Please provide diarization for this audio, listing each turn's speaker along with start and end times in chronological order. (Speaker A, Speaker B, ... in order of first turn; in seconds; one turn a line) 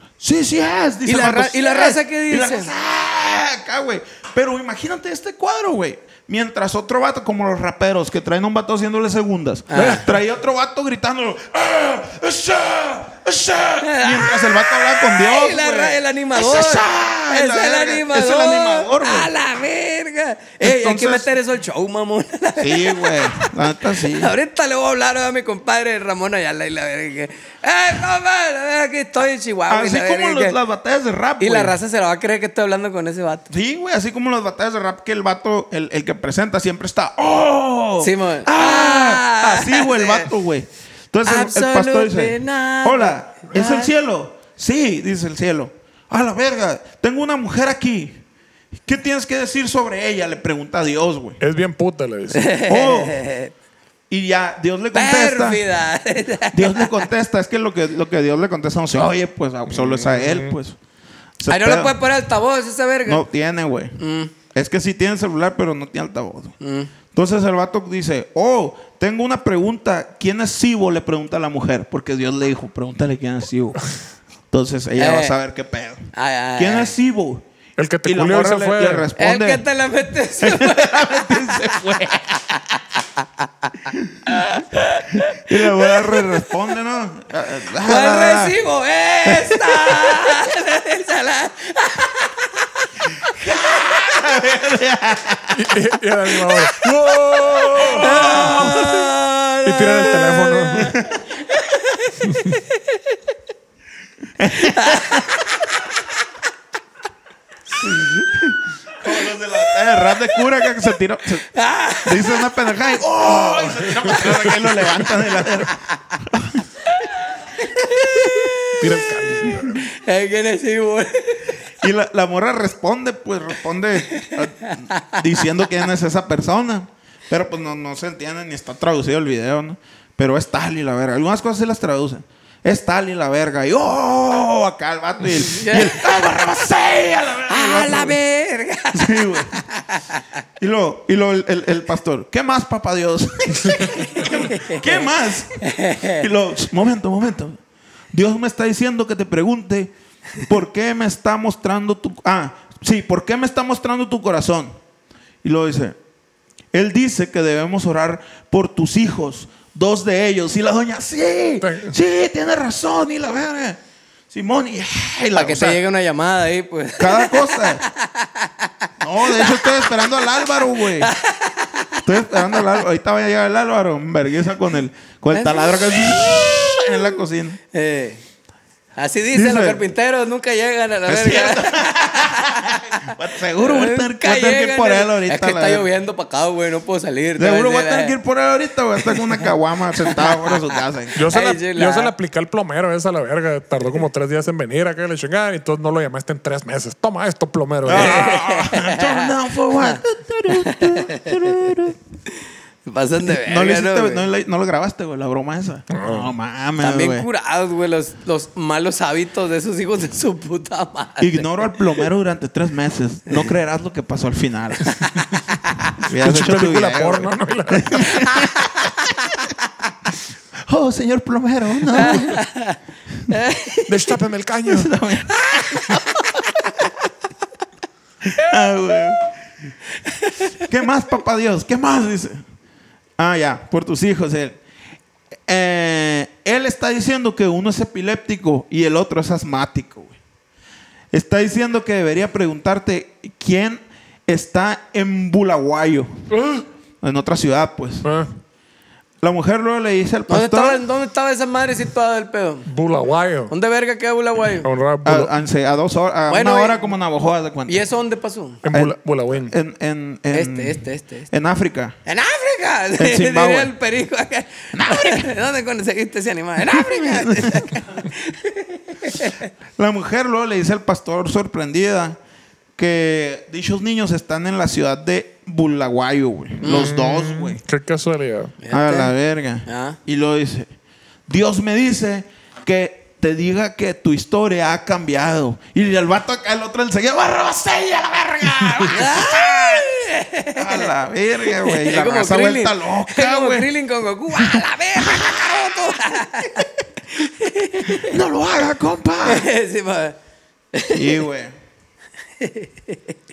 Speaker A: 0.2-19.3
Speaker B: 1.1-2.7
Speaker B: 9.7-10.1
Speaker C: 9.8-10.0
Speaker B: 13.8-30.6
Speaker A: 20.6-21.3
Speaker A: 22.6-24.3
Speaker A: 29.7-31.8
Speaker B: 31.4-33.5
Speaker A: 33.5-48.2
Speaker B: 38.0-40.3
Speaker B: 41.2-43.9
Speaker A: 48.8-51.4
Speaker C: 51.4-52.4
Speaker B: 52.3-53.5
Speaker A: 52.6-53.2
Speaker A: 54.1-55.6
Speaker B: 54.9-57.0
Speaker A: 56.5-60.8
Speaker C: 59.7-60.5
Speaker A: 61.4-62.0
Speaker B: 61.5-63.2
Speaker A: 63.0-64.0
Speaker B: 64.0-64.3
Speaker A: 64.5-66.5
Speaker B: 66.6-66.9
Speaker A: 67.1-73.8
Speaker A: 74.5-77.5
Speaker B: 75.0-75.3
Speaker B: 76.1-76.9
Speaker C: 77.8-79.1
Speaker A: 78.0-79.6
Speaker B: 79.2-86.5
Speaker A: 80.4-82.5
Speaker A: 83.9-84.4
Speaker A: 85.1-88.5
Speaker B: 87.8-94.0
Speaker A: 89.2-90.4
Speaker A: 93.3-95.7
Speaker C: 95.5-98.9
Speaker A: 97.8-98.8
Speaker B: 97.9-101.0
Speaker C: 99.6-100.9
Speaker A: 100.8-101.2
Speaker B: 101.5-103.2
Speaker C: 102.2-102.6
Speaker A: 104.4-105.4
Speaker B: 104.6-105.4
Speaker B: 107.8-108.3
Speaker A: 108.2-111.5
Speaker B: 111.5-112.5
Speaker A: 112.0-116.7
Speaker C: 113.9-114.5
Speaker B: 117.0-118.8
Speaker A: 118.0-118.3
Speaker C: 118.8-119.8
Speaker B: 119.8-121.6
Speaker A: 121.8-138.2
Speaker B: 124.1-125.2
Speaker B: 135.5-136.0
Speaker B: 137.5-140.2
Speaker A: 138.9-139.6
Speaker A: 140.6-147.6
Speaker B: 144.0-145.0
Speaker B: 145.6-146.2
Speaker A: 148.1-154.8
Speaker A: 155.4-156.0
Speaker A: 156.7-163.8
Speaker C: 161.6-161.9
Speaker A: 164.3-165.8
Speaker B: 165.3-169.9
Speaker A: 167.0-167.8
Speaker A: 169.0-171.1
Speaker B: 171.0-172.7
Speaker A: 172.0-177.6
Speaker B: 175.3-177.2
Speaker B: 177.7-178.2
Speaker B: 179.0-188.2
Speaker A: 179.3-179.8
Speaker A: 181.1-185.9
Speaker A: 187.4-191.1
Speaker B: 190.0-190.6
Speaker C: 191.2-198.3
Speaker B: 191.2-192.1
Speaker A: 197.8-201.9
Speaker B: 197.9-200.0
Speaker B: 200.5-201.3
Speaker B: 202.8-204.2
Speaker A: 203.2-207.3
Speaker C: 205.9-206.3
Speaker B: 206.8-212.0
Speaker A: 211.2-215.0
Speaker C: 216.1-218.2
Speaker A: 216.1-218.5
Speaker B: 218.2-218.7
Speaker A: 220.7-222.4
Speaker B: 221.9-222.8
Speaker B: 223.3-223.9
Speaker C: 223.8-224.9
Speaker A: 224.7-226.9
Speaker B: 225.7-226.0
Speaker A: 228.2-229.4
Speaker B: 230.2-230.5
Speaker A: 230.6-232.4
Speaker A: 233.2-234.6
Speaker A: 235.5-240.1
Speaker A: 241.1-246.2
Speaker C: 246.3-246.6
Speaker A: 247.0-248.1
Speaker C: 248.0-248.3
Speaker A: 249.2-250.8
Speaker B: 250.3-252.7
Speaker C: 252.7-253.5
Speaker B: 253.5-254.7
Speaker C: 254.6-255.3
Speaker A: 255.0-257.8
Speaker B: 256.3-256.9
Speaker B: 257.7-258.6
Speaker C: 258.6-259.5
Speaker A: 258.7-261.9
Speaker B: 260.3-261.3
Speaker B: 262.1-269.5
Speaker A: 263.0-263.7
Speaker A: 264.7-265.3
Speaker A: 266.7-267.7
Speaker A: 269.8-272.2
Speaker A: 272.8-277.6
Speaker C: 276.6-278.6
Speaker B: 276.6-276.9
Speaker B: 278.6-279.1
Speaker A: 278.7-280.7
Speaker B: 279.6-280.0
Speaker A: 281.3-289.9
Speaker B: 288.9-290.9
Speaker A: 290.6-293.7
Speaker B: 291.5-298.2
Speaker A: 294.3-296.6
Speaker A: 297.9-299.5
Speaker B: 299.2-300.2
Speaker B: 300.7-301.2
Speaker A: 300.9-301.5
Speaker B: 302.4-303.0